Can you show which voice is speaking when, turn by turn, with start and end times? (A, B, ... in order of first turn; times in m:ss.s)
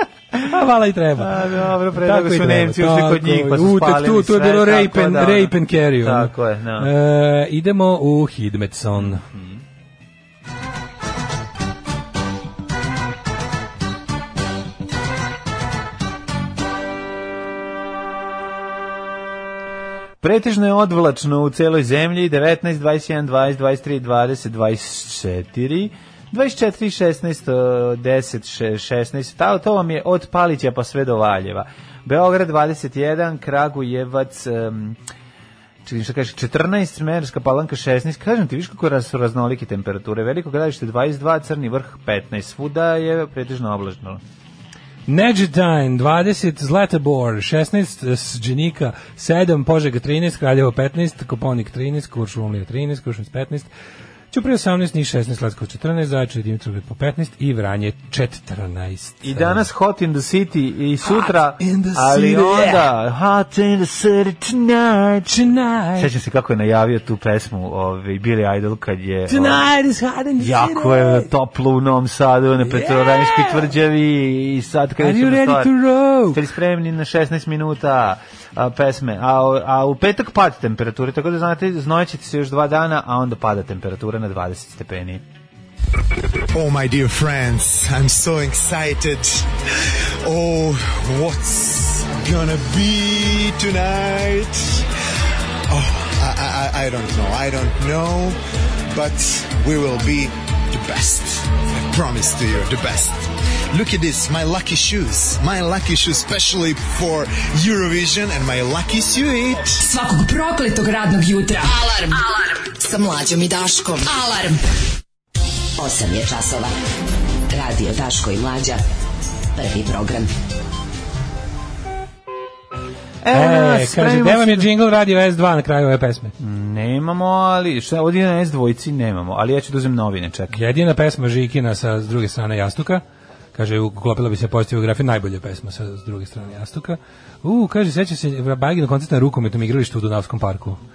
0:00.4-0:09.2 A
0:01.2-0:06.9 B
0:09.0-0:09.6 B
0:20.2-0:35.0 B
0:35.8-0:44.2 B
0:45.1-0:53.7 A
0:54.3-0:59.6 A
0:59.2-1:05.4 B
1:01.0-1:02.8 A
1:05.3-1:06.1 A
1:06.0-1:09.7 B
1:09.3-1:11.3 A
1:10.4-1:15.8 B
1:12.6-1:13.7 A
1:15.0-1:16.4 A
1:16.3-1:25.2 B
1:26.5-1:34.8 C
1:35.7-1:38.4 C
1:38.9-1:49.8 C
1:49.8-1:54.6 D
1:55.8-1:56.7 E
1:57.5-1:58.8 E
1:59.5-2:00.3 E
2:03.2-2:04.7 B
2:03.3-2:06.3 A
2:06.4-2:10.6 B
2:10.5-2:13.0 A
2:13.5-2:20.8 A